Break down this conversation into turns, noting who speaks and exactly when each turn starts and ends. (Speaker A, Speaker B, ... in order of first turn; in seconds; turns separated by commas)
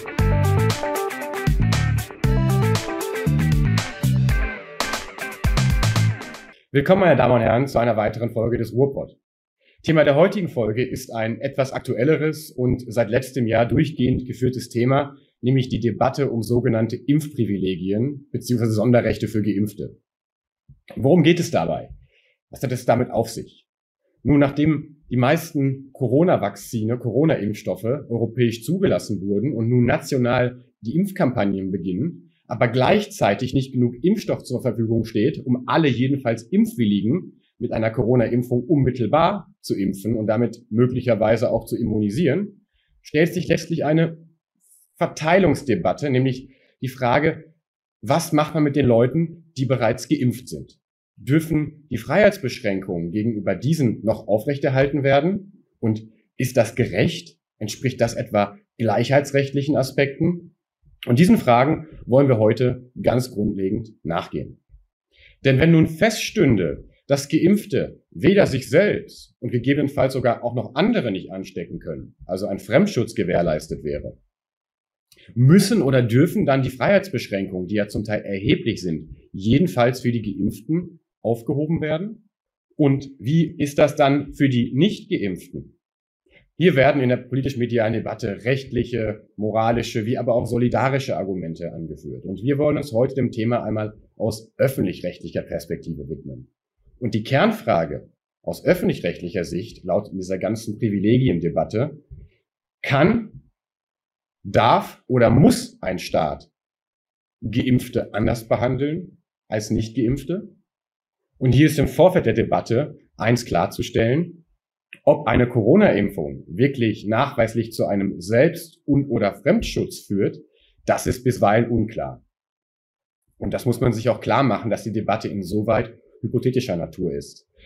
Speaker A: 6.7-9.2, Speaker A: 9.8-20.0, Speaker A: 21.0-21.9, Speaker A: 22.5-23.7, Speaker A: 24.2-44.2, Speaker A: 45.0-47.5, Speaker A: 48.0-60.5, Speaker A: 61.1-64.6, Speaker A: 65.4-74.2, Speaker A: 75.3-82.2, Speaker A: 82.8-85.8, Speaker A: 86.6-102.0, Speaker A: 102.8-103.4, Speaker A: 104.4-106.5, Speaker A: 107.4-110.5, Speaker A: 111.4-114.4, Speaker A: 115.1-122.2, Speaker A: 123.4-127.5